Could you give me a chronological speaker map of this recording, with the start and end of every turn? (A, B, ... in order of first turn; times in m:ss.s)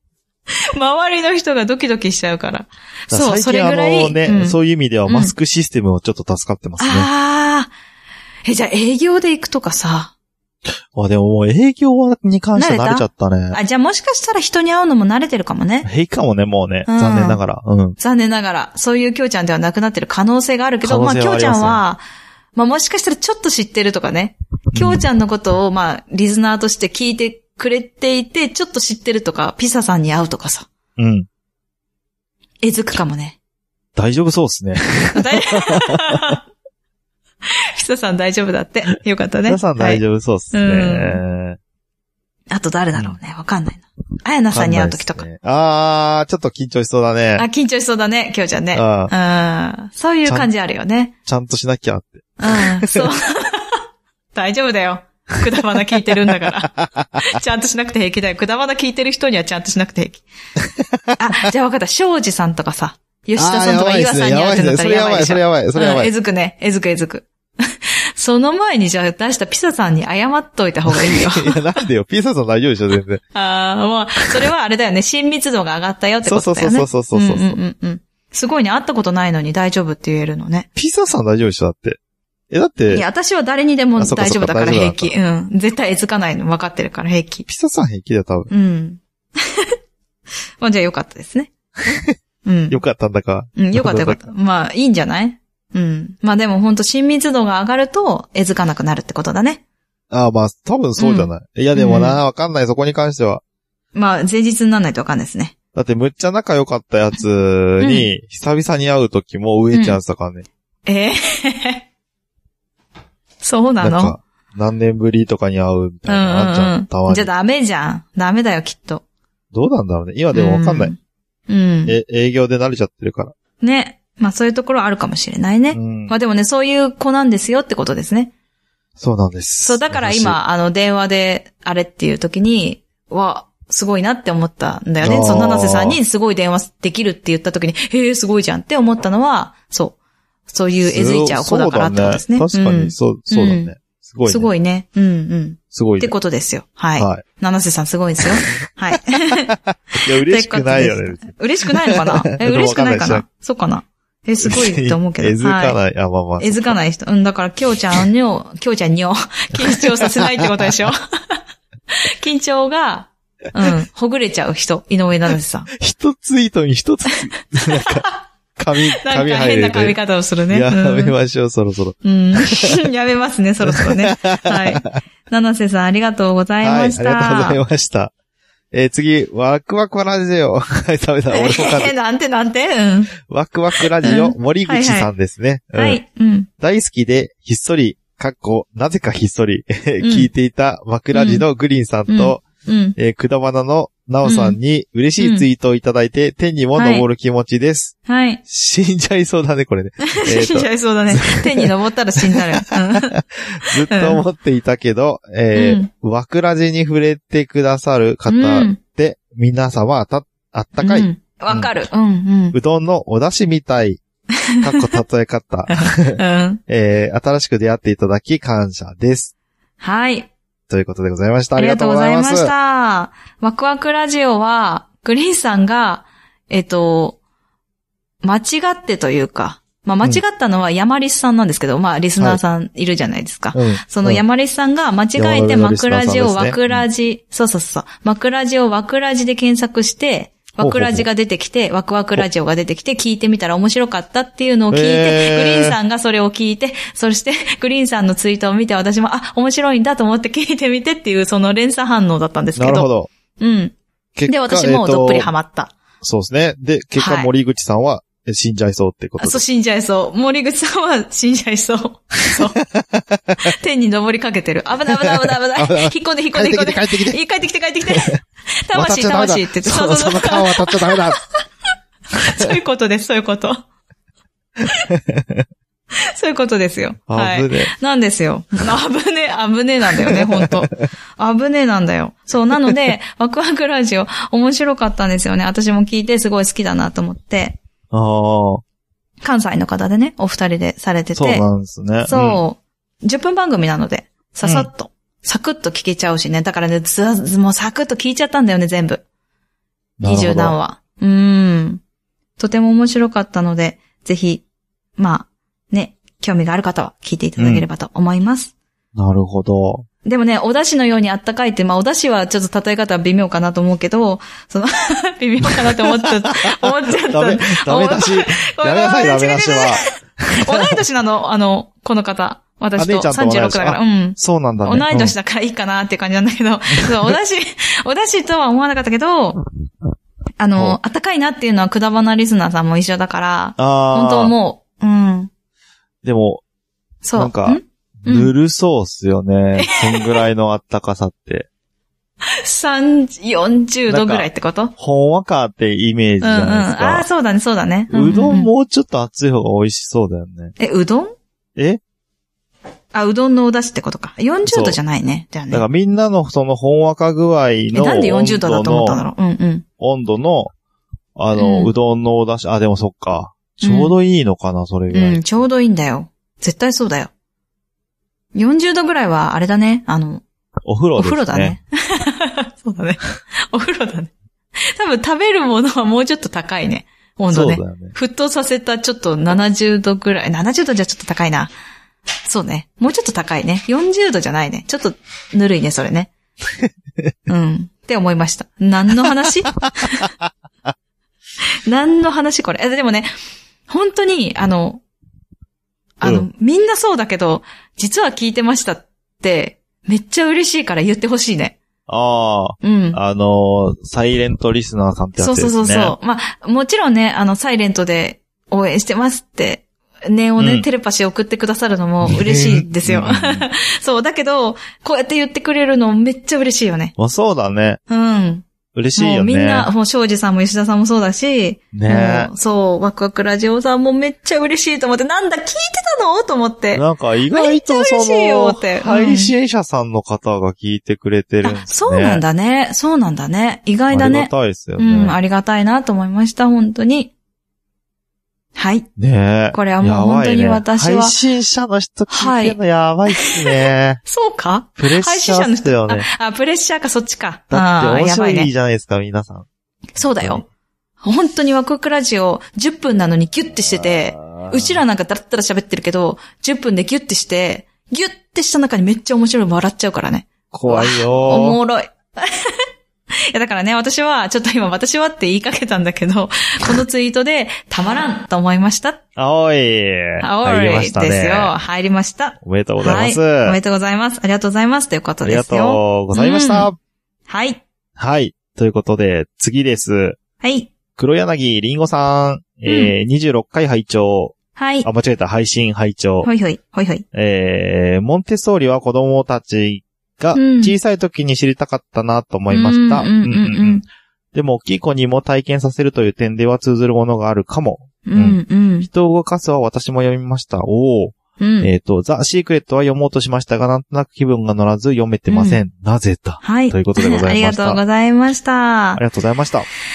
0:00.5-0:05.3 A
0:03.1-0:07.1 B
0:06.8-0:07.7 A
0:08.4-0:10.1 A
0:10.9-0:13.6 B
0:12.6-0:15.9 A
0:15.8-0:18.0 B
0:16.9-0:17.4 A
0:18.0-0:22.0 A
0:20.8-0:21.8 B
0:22.6-0:30.7 A
0:24.7-0:25.1 B
0:31.0-0:31.3 B
0:32.6-0:33.4 A
0:34.0-0:36.4 B
0:35.2-0:36.4 A
0:37.4-0:40.0 A
0:39.5-0:41.6 B
0:40.5-0:41.2 A
0:42.5-0:45.2 A
0:44.5-0:47.5 B
0:47.4-0:51.1 A
0:48.7-0:49.1 B
0:51.3-0:53.1 B
0:52.4-0:53.8 A
0:54.3-1:00.2 A
0:56.7-0:57.4 B
1:01.1-1:01.5 B
1:01.2-1:11.6 A
1:03.4-1:06.1 B
1:10.9-1:13.2 B
1:13.4-1:20.7 A
1:16.2-1:17.6 B
1:20.8-1:22.0 B
1:22.5-1:23.0 B
1:22.9-1:27.5 A
1:24.0-1:25.1 B
1:27.5-1:28.5 B
1:28.5-1:29.7 A
1:30.6-1:31.5 A
1:32.4-1:32.8 A
1:32.7-1:34.3 B
1:33.6-1:39.6 A
1:40.1-1:43.4 B
1:41.0-1:42.2 A
1:44.0-1:45.5 A
1:45.8-1:50.5 B
1:47.8-1:48.1 A
1:49.7-1:50.0 A
1:50.9-1:51.8 A
1:53.4-1:54.2 A
1:53.8-1:57.3 B
1:56.1-1:59.0 A
1:59.5-2:01.0 B
2:00.3-2:01.0 A
2:01.5-2:02.0 A
2:01.9-2:03.3 B
2:03.6-2:08.3 A
2:05.7-2:06.1 B
2:09.0-2:10.4 B
2:09.6-2:20.0 A
2:15.0-2:16.0 B
2:20.5-2:23.7 A
2:20.8-2:24.5 B
2:24.3-2:29.5 A
2:25.7-2:26.1 B
2:27.0-2:27.2 B
2:29.3-2:33.2 B
2:30.2-2:35.8 A
2:34.4-2:36.8 B
2:36.4-2:41.4 A
2:39.6-2:40.7 B
2:42.0-2:45.7 A
2:45.7-2:50.0 B
2:47.8-2:48.0 A
2:49.0-2:51.1 A
2:50.5-2:52.8 B
2:52.0-2:57.6 A
2:53.6-2:55.0 B
2:56.6-2:58.1 B
2:58.7-3:01.9 B
3:01.3-3:03.2 A
3:03.2-3:06.0 B
3:04.0-3:05.1 A
3:05.8-3:06.5 A
3:06.6-3:12.4 B
3:10.0-3:10.3 A
3:11.1-3:11.4 A
3:12.1-3:13.0 A
3:13.0-3:17.9 B
3:14.2-3:14.6 A
3:15.2-3:15.5 A
3:16.8-3:17.0 A
3:18.1-3:18.4 A
3:18.5-3:31.7 B
3:20.1-3:23.1 A
3:23.9-3:24.2 A
3:25.5-3:25.9 A
3:28.3-3:28.8 A
3:30.8-3:32.6 A
3:32.5-3:34.0 B
3:34.4-3:34.7 A
3:34.6-3:39.3 B
3:35.7-3:36.6 A
3:39.8-3:40.3 A
3:40.7-3:42.5 B
3:41.6-3:47.2 A
3:48.2-4:13.7 A
3:53.5-3:54.2 B
3:55.2-3:56.9 B
4:00.6-4:01.1 B
4:04.7-4:05.8 B
4:12.6-4:13.1 B
4:14.2-4:15.3 B
4:14.3-4:15.7 A
4:16.0-4:19.4 B
4:17.0-4:17.3 A
4:19.2-4:22.6 A
4:22.2-4:23.5 B
4:23.4-4:28.1 A
4:25.0-4:27.2 B
4:27.9-4:28.2 B
4:28.7-4:31.2 A
4:28.7-4:31.2 B
4:32.2-4:32.5 B
4:32.2-4:33.6 A
4:34.9-4:35.4 B
4:36.0-4:47.6 A
4:37.1-4:37.7 B
4:40.0-4:40.5 B
4:47.9-4:48.6 B
4:49.2-4:51.4 A
4:51.2-4:52.4 B
4:52.1-4:59.0 A
5:00.0-5:00.6 B
5:00.0-5:01.8 A
5:02.4-5:04.4 A
5:05.0-5:08.5 A
5:07.4-5:07.7 B
5:09.0-5:09.9 B
5:10.0-5:19.9 A
5:15.5-5:20.8 B
5:20.4-5:29.4 A
5:22.8-5:25.1 B
5:30.4-5:35.3 A
5:33.6-5:34.4 B
5:36.0-5:36.4 B
5:37.0-5:38.3 A
5:37.2-5:41.5 B
5:39.6-5:40.2 A
5:42.2-5:44.7 A
5:43.9-5:47.1 B
5:46.2-5:48.5 A
5:47.9-5:50.6 B
5:50.6-5:51.1 A
5:52.9-5:55.6 A
5:54.5-5:54.8 B
5:55.5-5:59.0 B
5:57.7-5:59.6 A
5:59.8-6:00.5 B
6:01.2-6:05.4 B
6:01.4-6:01.7 A
6:03.6-6:04.0 A
6:04.9-6:07.1 A
6:08.3-6:10.2 A
6:10.7-6:11.6 B
6:11.0-6:21.5 A
6:17.3-6:18.0 B
6:22.2-6:26.1 A
6:26.6-6:27.1 B
6:27.3-6:30.1 A
6:29.8-6:30.0 B
6:31.7-6:33.1 A
6:33.7-6:34.8 A
6:36.0-6:41.6 A
6:36.0-6:36.3 B
6:41.9-6:46.0 B
6:42.6-6:43.0 A
6:45.2-6:56.9 A
6:50.4-6:50.6 B
6:52.0-6:53.5 B
6:57.0-6:57.8 B
6:57.9-6:58.4 A
6:58.7-6:59.7 B
6:59.0-7:09.3 A
7:01.7-7:02.3 B
7:06.7-7:12.2 B
7:11.4-7:17.1 A
7:13.9-7:15.2 B
7:18.6-7:18.9 A
7:19.0-7:24.0 B
7:19.5-7:21.2 A
7:22.1-7:22.6 A
7:23.1-7:28.5 A
7:24.8-7:26.1 B
7:27.5-7:29.5 B
7:30.0-7:30.4 A
7:30.0-7:30.4 B
7:31.0-7:42.6 A
7:34.2-7:34.8 B
7:40.5-7:41.6 B
7:43.3-7:49.0 A
7:49.2-7:51.5 B
7:50.2-7:56.7 A
7:52.4-7:53.6 B
7:55.2-7:56.8 B
7:57.3-7:57.6 A
7:58.0-8:00.2 B
8:00.4-8:00.7 A
8:01.0-8:06.3 B
8:02.7-8:02.9 A
8:04.6-8:04.9 A
8:06.2-8:07.0 A
8:07.1-8:27.8 B
8:10.4-8:10.8 A
8:12.5-8:13.8 A
8:18.0-8:18.9 A
8:21.4-8:21.7 A
8:25.3-8:25.6 A
8:26.4-8:29.0 A
8:28.9-8:29.7 B